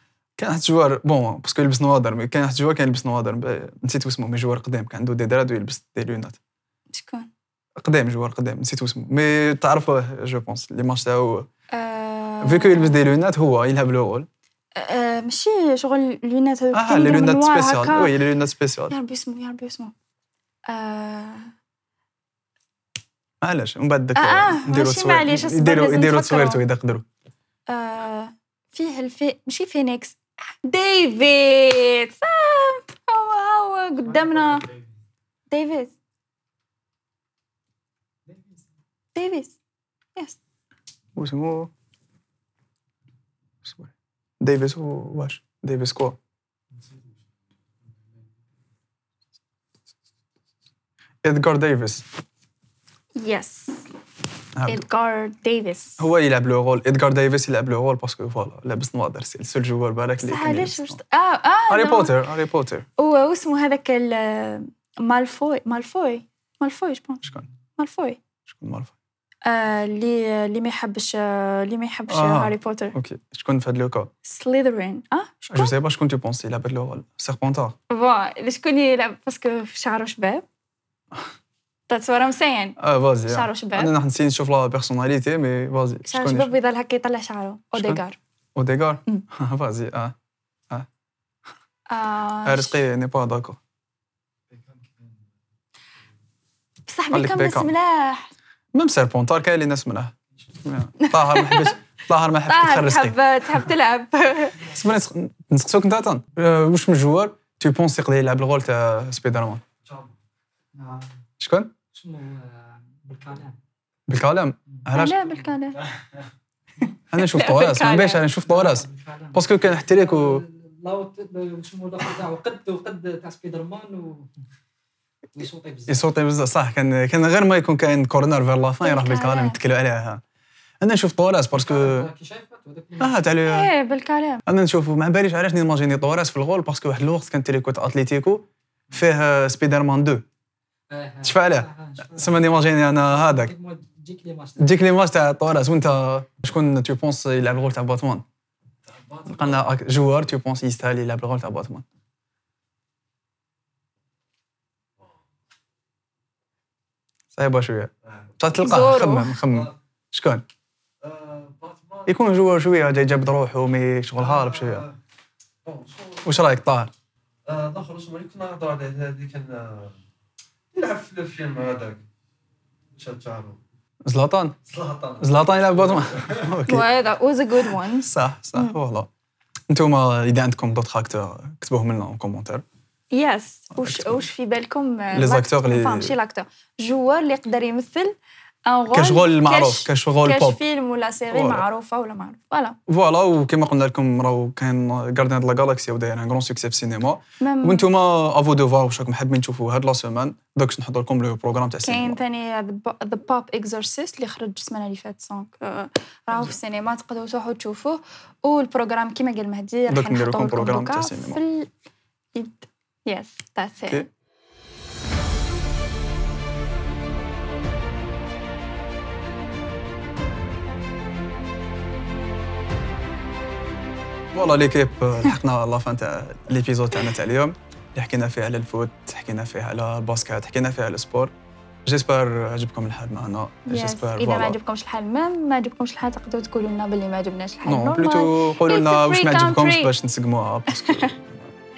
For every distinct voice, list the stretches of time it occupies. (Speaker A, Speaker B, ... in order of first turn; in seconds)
Speaker A: 0.4-6.4, 7.8-11.5, 12.4-14.3, 16.7-18.9, 23.4-27.1, 41.1-41.7, 43.6-46.2, 51.2-52.0, 54.5-54.8, 56.0-61.0, 61.7-62.9, 68.5-68.9, 72.1-74.1, 75.5-77.8, 82.8-86.5, 87.7-88.0, 88.5-90.1, 92.4-93.6, 97.1-97.7, 98.7-100.1, 100.6-103.7, 104.7-109.6, 111.4-111.7, 114.1-115.2, 117.1-120.4, 125.9-130.2, 130.8-132.1, 133.0-133.7, 134.4-140.2, 141.2-143.5, 144.6-148.2, 149.2-151.8, 157.3-160.4, 162.1-164.8, 166.2-166.9, 174.0-174.6, 175.2-176.9, 177.8-179.1, 179.7-182.6, 183.7-184.2, 185.1-186.1, 188.9-190.6, 191.3-191.6, 192.9-202.2, 209.9-211.4, 224.3-231.3, 231.8-234.6, 237.6-241.5
Speaker B: 6.9-7.3, 11.7-13.0, 14.8-18.1, 18.9-19.9, 20.7-21.5, 24.1-26.6, 27.7-34.7, 35.5-35.9, 39.1-39.6, 53.1-53.9, 54.6-56.0, 60.2-62.1, 63.0-68.2, 69.4-72.9, 74.2-75.7, 77.9-80.4, 81.9-83.9, 86.1-88.2, 91.9-92.8, 96.9-98.3, 101.0-101.7, 102.5-104.7, 114.9-115.8, 117.2-118.2, 128.8-129.6, 133.4-134.4, 158.6-159.4, 176.6-178.7, 183.1-188.1, 188.7-192.8, 197.4-197.9, 201.8-211.7, 212.3-214.1, 233.7-239.9
Speaker C: 34.1-34.8, 38.3-38.6, 110.7-111.1, 111.9-113.5, 118.4-124.3, 125.3-126.1, 131.5-133.2, 140.9-144.7
Speaker D: 109.8-110.1, 148.9-149.6, 158.1-158.3, 161.0-162.2, 164.2-164.9, 165.6-166.5, 167.4-170.0, 170.7-172.0, 173.0-173.6, 174.7-176.5